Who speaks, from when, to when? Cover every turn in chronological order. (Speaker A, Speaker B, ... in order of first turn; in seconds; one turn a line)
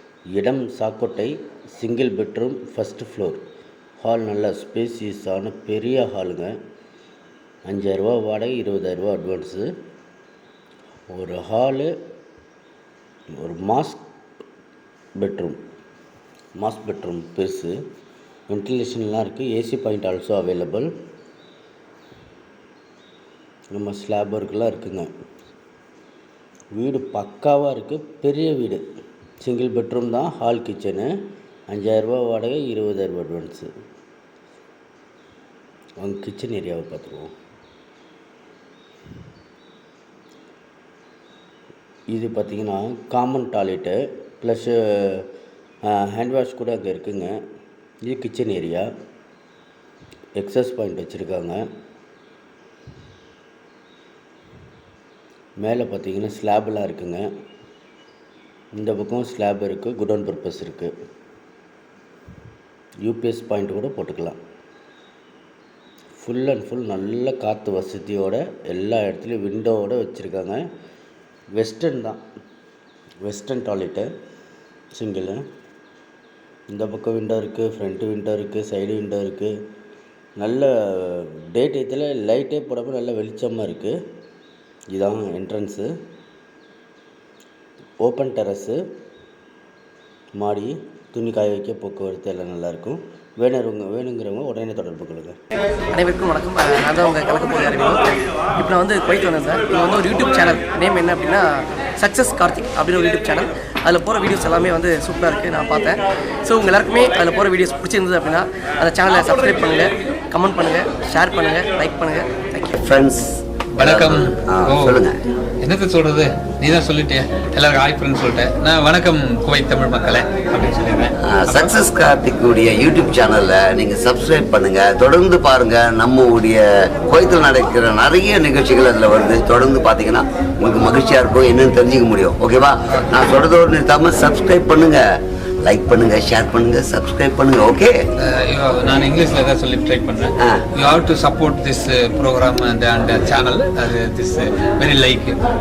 Speaker A: 0.4-3.4
Speaker A: 4.0-6.6
Speaker A: 7.7-9.7
Speaker A: 11.1-11.9
Speaker A: 13.3-14.0
Speaker A: 15.2-15.6
Speaker A: 16.6-17.8
Speaker A: 18.5-20.9
Speaker A: 23.7-25.1
Speaker A: 26.8-28.8
Speaker A: 29.4-31.1
Speaker A: 31.7-33.7
Speaker A: 36.0-37.3
Speaker A: 42.1-45.3
Speaker A: 45.8-47.4
Speaker A: 48.0-48.9
Speaker A: 50.4-51.6
Speaker A: 55.6-57.3
Speaker A: 58.8-60.9
Speaker A: 63.0-64.4
Speaker A: 66.2-70.6
Speaker A: 71.6-72.2
Speaker A: 73.2-74.1
Speaker A: 74.9-75.4
Speaker A: 76.7-79.5
Speaker A: 80.4-84.0
Speaker A: 84.9-85.9
Speaker A: 88.0-88.8
Speaker A: 90.4-95.4
Speaker B: 95.9-112.9
Speaker C: 112.8-115.2
Speaker D: 113.8-115.0
Speaker D: 115.6-121.7
Speaker C: 121.2-135.0
Speaker D: 132.9-133.2
Speaker C: 135.6-137.9
Speaker D: 138.2-145.4